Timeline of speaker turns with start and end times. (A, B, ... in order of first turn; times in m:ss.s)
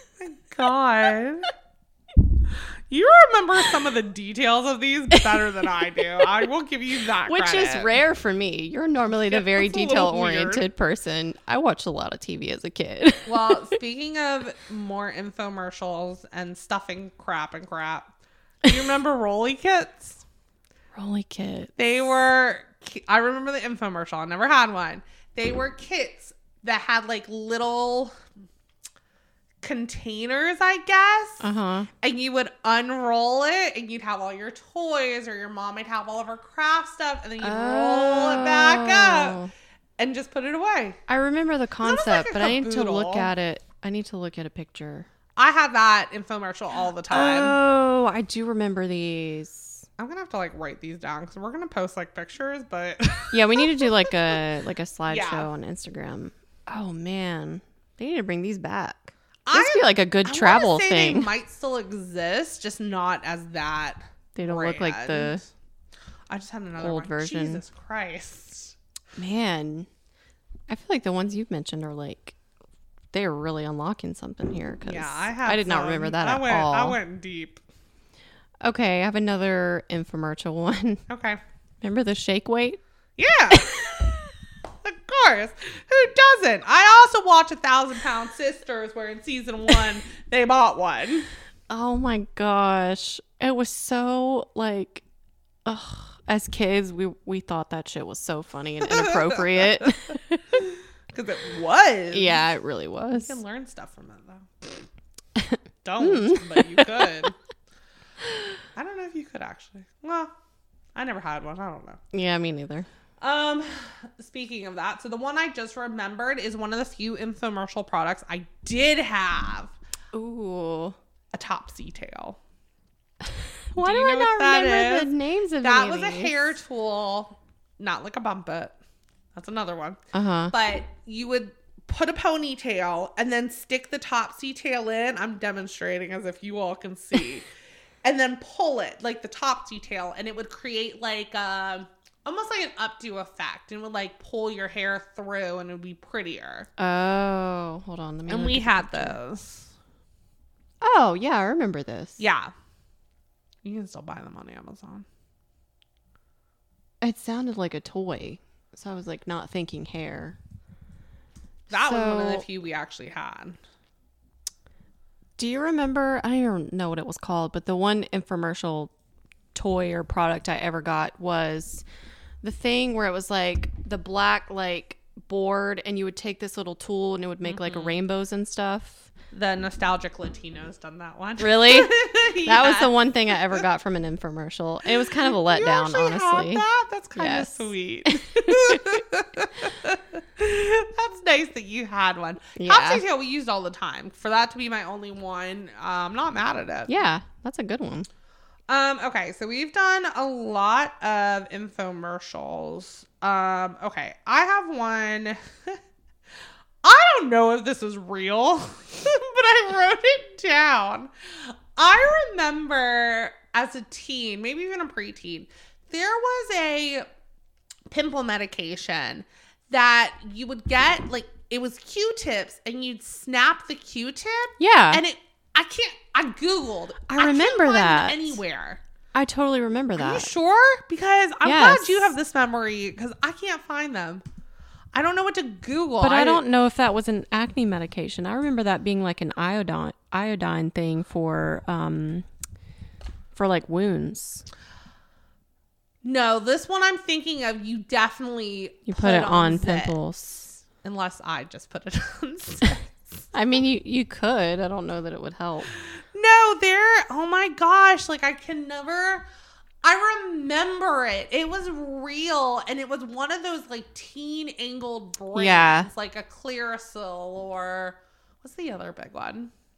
0:00.2-0:01.5 A
0:02.9-0:07.9 A
0:07.3-0:13.6 B
0:09.2-0:10.7 A
0:13.3-0:18.1 A
0:18.6-0:20.2 A
0:21.0-0:21.8 B
0:21.8-0:28.1 A
0:29.6-0:31.4 A
0:31.4-0:31.9 B
0:32.0-0:39.4 A
0:37.4-0:39.5 B
0:40.0-0:41.0 A
0:41.1-0:45.1 B
0:41.8-0:43.3 A
0:45.4-0:47.6 A
0:47.1-0:49.8 B
0:50.0-0:54.1 A
0:53.3-1:01.3 B
0:55.1-0:55.5 A
0:59.5-1:05.4 A
1:04.4-1:05.4 B
1:06.3-1:08.8 A
1:06.8-1:07.6 B
1:09.2-1:09.9 B
1:10.7-1:12.4 B
1:13.1-1:17.0 B
1:14.8-1:17.6 A
1:18.6-1:21.0 B
1:21.1-1:21.4 A
1:21.8-1:22.8 B
1:23.2-1:24.2 A
1:24.8-1:31.3 A
1:31.7-1:35.0 B
1:35.6-1:40.6 B
1:38.9-1:39.9 A
1:41.1-1:42.4 A
1:42.1-1:43.4 B
1:43.2-1:44.7 A
1:45.4-1:47.3 B
1:45.8-1:47.4 A
1:48.8-1:50.3 A
1:51.0-1:52.0 A
1:52.1-1:52.9 B
1:53.2-1:59.7 A
2:00.1-2:01.0 B
2:01.3-2:02.4 A
2:03.7-2:06.6 B
2:03.8-2:08.8 A
2:09.4-2:10.0 A
2:10.1-2:10.5 B
2:10.5-2:17.5 A
2:18.0-2:26.7 A
2:26.8-2:29.2 B
2:28.3-2:29.7 A
2:30.8-2:32.2 B
2:32.2-2:32.5 A
2:33.6-2:35.1 A
2:37.0-2:40.4 B
2:41.7-2:43.6 A
2:41.7-2:42.4 B
2:45.4-2:48.9 B
2:49.5-2:51.8 B
2:52.4-2:59.1 B
2:57.4-2:58.0 A
2:59.3-3:03.0 A
3:01.4-3:09.0 B
3:05.2-3:17.0 A
3:12.6-3:13.0 B
3:16.9-3:18.1 B
3:18.7-3:25.8 A
3:26.8-3:37.1 A
3:37.9-3:48.8 A
3:44.6-3:45.0 B
3:47.1-3:48.4 B
3:49.1-3:50.3 B
3:50.0-3:54.2 A
3:51.4-3:52.2 B
3:54.9-3:56.4 A
3:56.0-4:02.3 B
4:03.3-4:04.5 B
4:06.0-4:10.0 A
4:08.9-4:10.6 B
4:10.8-4:13.2 A
4:13.3-4:15.7 B
4:15.8-4:19.3 A
4:19.8-4:29.5 A
4:25.4-4:25.9 B